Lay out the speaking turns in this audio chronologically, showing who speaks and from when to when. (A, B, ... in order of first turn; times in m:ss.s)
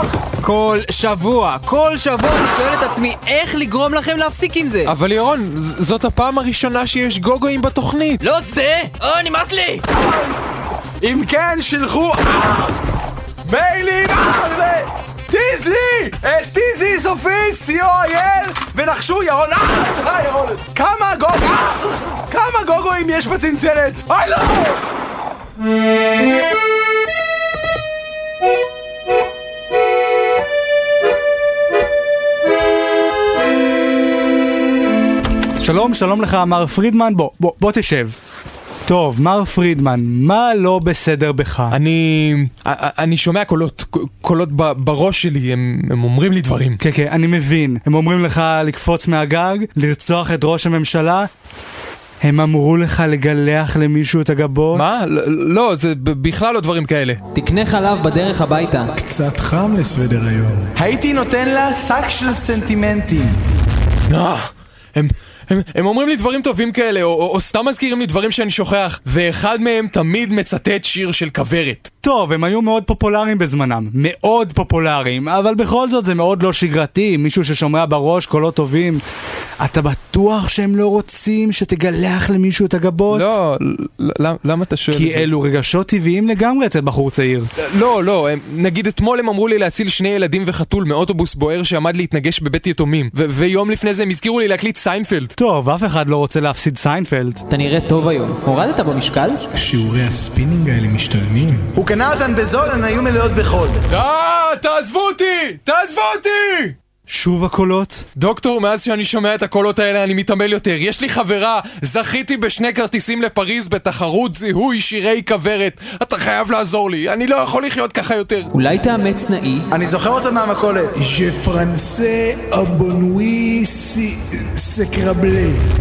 0:00.4-0:04.9 A
0:04.8-0:08.2 B
0:08.2-0:09.8 A
0:09.9-0:10.4 C
0:11.0-0:12.8 C
0:13.4-0:24.8 C
0:35.6-0:38.2 D
0:38.9-0:41.8 D
0:41.7-0:46.8 B
0:46.8-0:51.3 D
0:52.2-0:54.9 D
0:54.7-0:57.2 B
0:57.3-0:58.9 A
0:59.0-1:00.7 E
1:00.8-1:03.4 C
1:04.1-1:11.9 B
1:12.0-1:19.0 D
1:19.6-1:23.3 D
1:23.1-1:25.3 B
1:24.9-1:27.5 D
1:27.6-1:35.3 B
1:35.4-1:37.4 D
1:37.5-1:39.5 A
1:39.5-1:41.7 E
1:41.8-1:43.8 C
1:43.9-1:46.7 B
1:47.1-1:48.0 D
1:48.2-1:58.5 B
1:58.5-1:59.7 A
1:59.7-2:00.9 C
2:01.0-2:05.6 E